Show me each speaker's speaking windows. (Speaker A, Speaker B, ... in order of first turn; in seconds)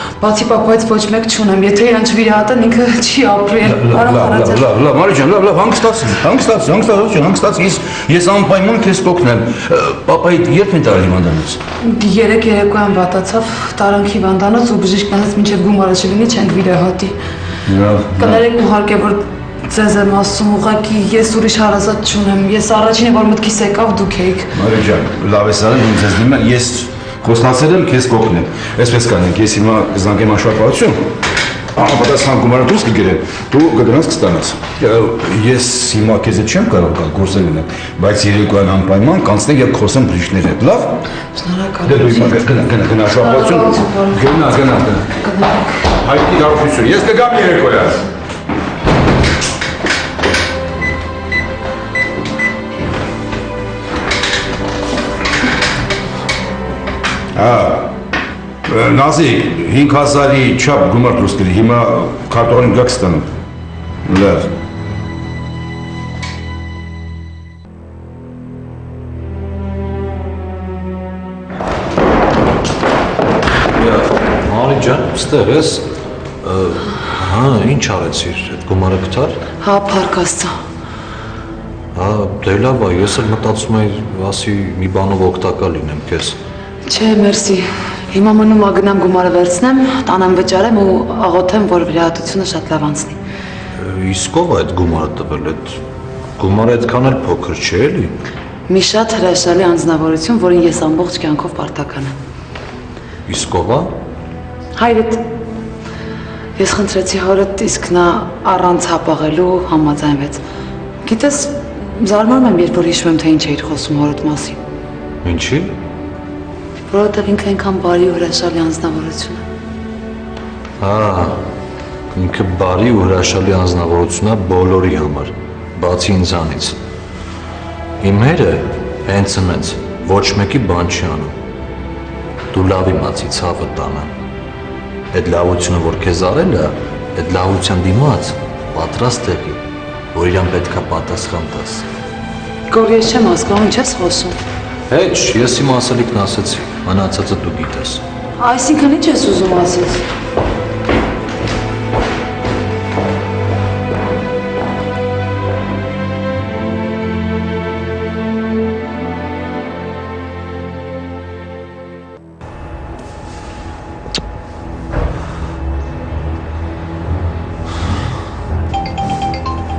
Speaker A: 0.2-4.7, 11.8-17.2, 18.2-24.5, 41.4-42.5, 43.0-45.9, 79.6-80.5, 86.9-93.2, 98.7-102.1, 104.8-105.2, 106.6-110.4, 111.0-114.6, 116.9-119.4, 142.7-144.4, 148.4-150.0
Speaker B: 3.6-11.6, 17.7-18.4, 24.5-31.0, 31.8-41.0, 41.9-45.1, 46.0-48.0, 57.4-57.9, 58.7-63.3, 64.0-64.5
Speaker C: 73.8-75.9, 76.4-79.4, 81.9-86.4, 93.8-95.8, 96.4-98.2, 103.3-104.0, 115.2-115.8, 120.8-121.4, 122.1-126.8, 128.0-131.3, 132.5-134.1, 135.1-141.9, 144.9-148.0